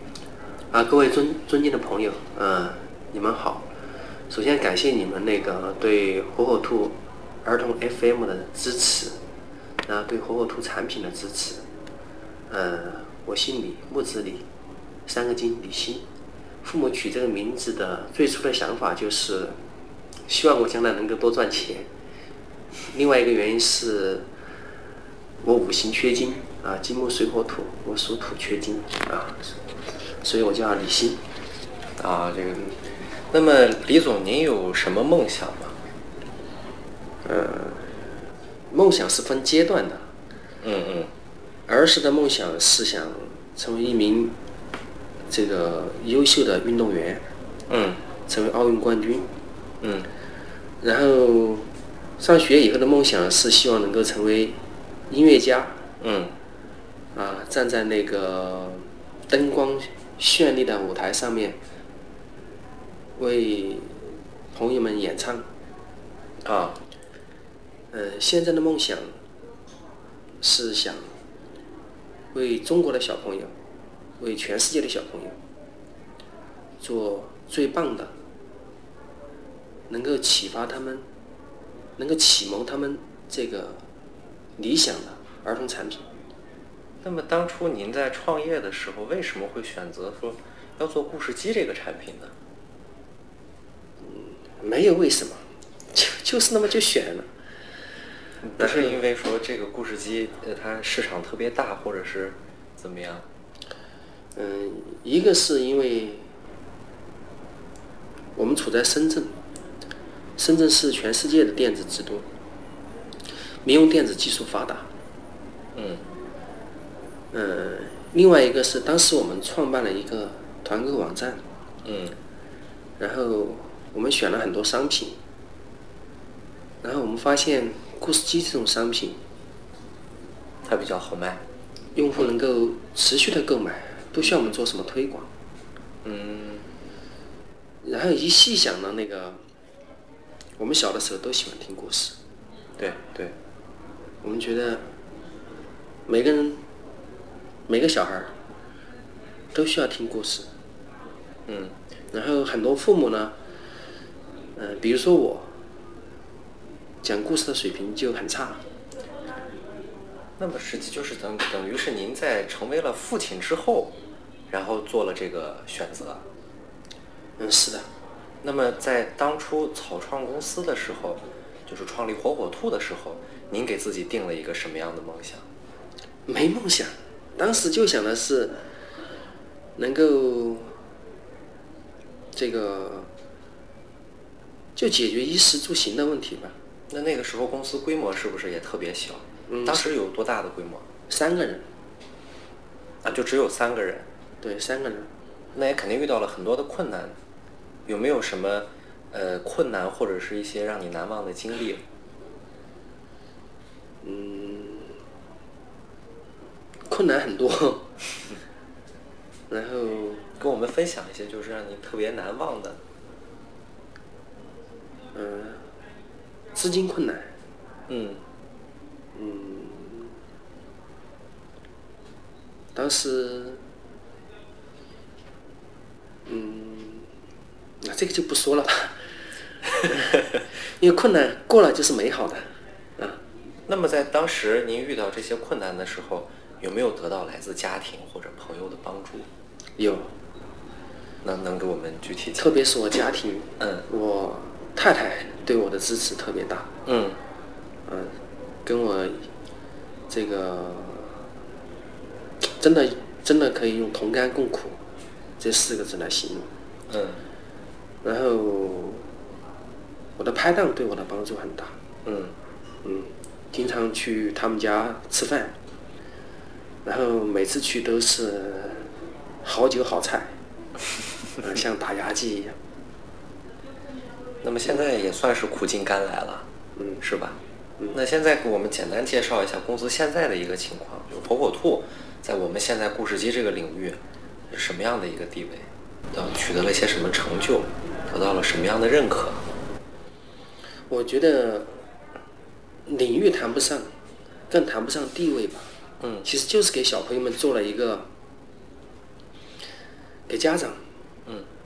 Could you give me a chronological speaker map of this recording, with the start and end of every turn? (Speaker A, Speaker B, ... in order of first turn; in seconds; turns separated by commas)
Speaker A: 0.7-3.7, Speaker A: 4.3-9.2, Speaker A: 9.9-11.7, Speaker A: 12.5-14.5, Speaker A: 15.1-16.1, Speaker A: 16.6-19.6, Speaker A: 20.3-21.9, Speaker A: 22.9-24.3, Speaker A: 25.4-29.5, Speaker A: 30.2-31.2, Speaker B: 32.0-35.8, Speaker A: 37.2-38.0, Speaker A: 38.7-40.1, Speaker B: 40.6-41.1, Speaker A: 41.7-44.4, Speaker A: 45.3-47.2, Speaker B: 47.7-48.0, Speaker A: 48.3-49.3, Speaker B: 49.8-50.1, Speaker A: 50.8-54.6, Speaker A: 55.1-55.8, Speaker B: 56.0-56.4, Speaker A: 57.1-61.6, Speaker A: 63.2-65.5, Speaker B: 66.5-66.8, Speaker A: 67.9-69.2, Speaker A: 70.4-71.1, Speaker A: 72.3-73.5, Speaker A: 74.2-75.4, Speaker A: 76.8-78.1, Speaker A: 79.9-81.1, Speaker A: 82.0-83.8, Speaker A: 84.6-86.0, Speaker B: 87.0-92.3, Speaker A: 94.0-97.3, Speaker B: 98.4-103.3, Speaker A: 98.6-99.0, Speaker A: 104.4-106.3, Speaker A: 108.3-109.3, Speaker A: 110.4-112.3, Speaker A: 113.6-114.9, Speaker B: 115.8-116.0, Speaker A: 117.3-121.4, Speaker B: 121.8-122.2, Speaker A: 123.0-125.2, Speaker A: 126.8-129.2, Speaker B: 130.6-131.4, Speaker A: 131.9-135.3, Speaker B: 136.0-136.7, Speaker A: 137.8-139.4, Speaker A: 140.6-142.2, Speaker B: 142.8-143.3, Speaker A: 144.2-144.9, Speaker A: 146.1-146.6, Speaker A: 147.7-148.3, Speaker A: 149.5-150.5, Speaker B: 151.5-151.8, Speaker A: 152.1-153.3, Speaker A: 154.6-155.5, Speaker A: 157.0-158.6, Speaker B: 160.4-164.0, Speaker B: 164.5-166.2, Speaker A: 167.4-167.9, Speaker B: 168.4-175.5, Speaker A: 176.3-178.6, Speaker A: 179.8-180.8, Speaker A: 182.3-183.1, Speaker A: 184.8-186.6, Speaker B: 186.9-190.9, Speaker A: 189.5-189.9, Speaker A: 191.1-191.7, Speaker B: 193.0-194.1, Speaker A: 194.4-195.1, Speaker B: 195.6-197.2, Speaker B: 197.9-201.8, Speaker A: 204.0-204.9, Speaker A: 206.9-207.9, Speaker A: 209.5-210.3, Speaker B: 210.4-212.8, Speaker A: 215.1-215.7, Speaker A: 216.6-217.3, Speaker B: 217.9-218.2, Speaker A: 219.1-220.2, Speaker A: 222.8-223.6, Speaker A: 226.3-227.1, Speaker A: 227.8-228.9, Speaker A: 229.7-230.2, Speaker A: 230.8-232.5, Speaker B: 233.7-239.3, Speaker A: 239.8-240.1, Speaker B: 241.2-242.6, Speaker A: 242.4-246.7, Speaker B: 243.6-243.9, Speaker B: 246.9-247.2, Speaker A: 247.9-249.3, Speaker A: 250.1-251.2, Speaker A: 252.4-254.8, Speaker A: 255.4-256.5, Speaker B: 256.9-257.2, Speaker A: 258.0-259.1, Speaker A: 260.2-261.8, Speaker B: 262.1-262.4, Speaker A: 262.8-265.6, Speaker A: 266.9-268.9, Speaker A: 269.4-270.3, Speaker A: 271.4-272.6, Speaker B: 274.4-276.5, Speaker A: 276.8-277.0, Speaker B: 277.0-277.4, Speaker B: 277.9-289.4, Speaker A: 290.9-291.8, Speaker A: 292.9-293.9, Speaker A: 294.5-295.7, Speaker B: 296.0-296.3, Speaker A: 296.2-298.1, Speaker A: 300.3-300.8